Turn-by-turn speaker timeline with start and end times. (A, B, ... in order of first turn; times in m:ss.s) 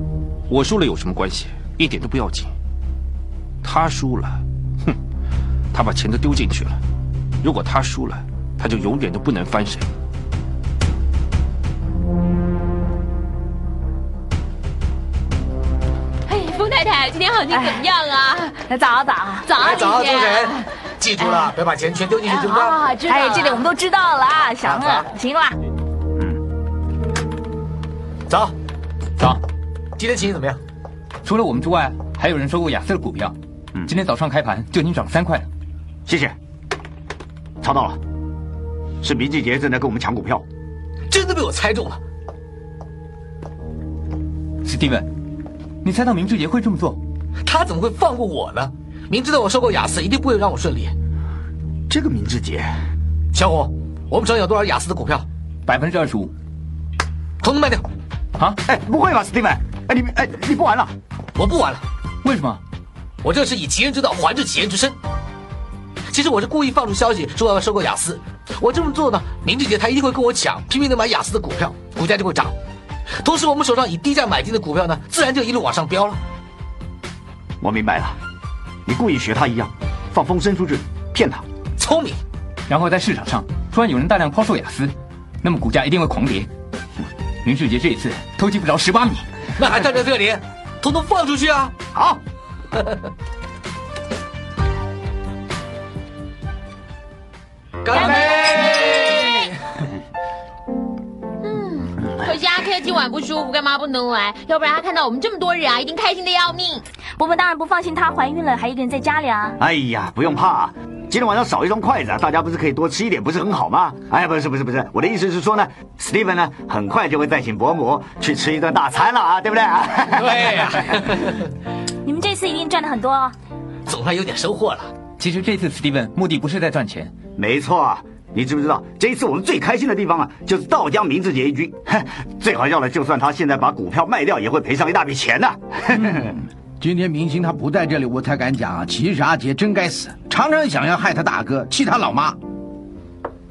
0:00.5-0:02.5 A
0:03.6-0:05.0 A
0:05.7-0:06.8 A
0:07.4-0:09.9 A
0:16.3-0:18.6 B
0:17.5-0:17.8 C
0:18.7-0:19.5 C
0:19.4-0:20.7 B
0:19.6-0:22.8 D
0:21.2-0:21.5 B
0:22.3-0:23.6 B
0:23.1-0:25.6 C
0:24.6-0:25.1 D
0:28.3-0:28.5 D
0:30.0-0:30.6 D
0:31.2-0:33.3 E
0:33.8-0:35.5 E
0:36.1-0:36.4 F
0:37.6-0:38.0 F
0:39.0-0:40.4 F
0:41.1-0:42.0 D
0:44.6-0:45.1 E
0:45.8-0:47.0 E
0:47.4-0:50.9 D
0:51.9-0:52.8 F
0:53.3-0:55.3 D
0:55.6-0:56.3 E
0:57.4-0:57.8 D
0:58.6-1:00.9 F
1:01.4-1:01.8 D
1:02.2-1:02.6 E
1:03.2-1:05.0 D
1:06.1-1:12.5 D
1:13.2-1:16.2 D
1:17.6-1:18.2 F
1:18.9-1:21.4 F
1:21.8-1:22.2 D
1:22.7-1:26.5 E
1:27.4-1:29.2 E
1:29.6-1:31.7 D
1:31.9-1:32.2 F
1:37.8-1:39.5 D
1:37.9-1:39.2 B
1:41.4-1:46.8 B
1:47.2-1:49.6 C
1:49.6-2:00.8 F
2:00.1-2:01.4 D
2:02.0-2:03.3 C
2:03.8-2:04.9 D
2:05.2-2:07.1 E
2:07.4-2:16.4 F
2:16.8-2:22.4 G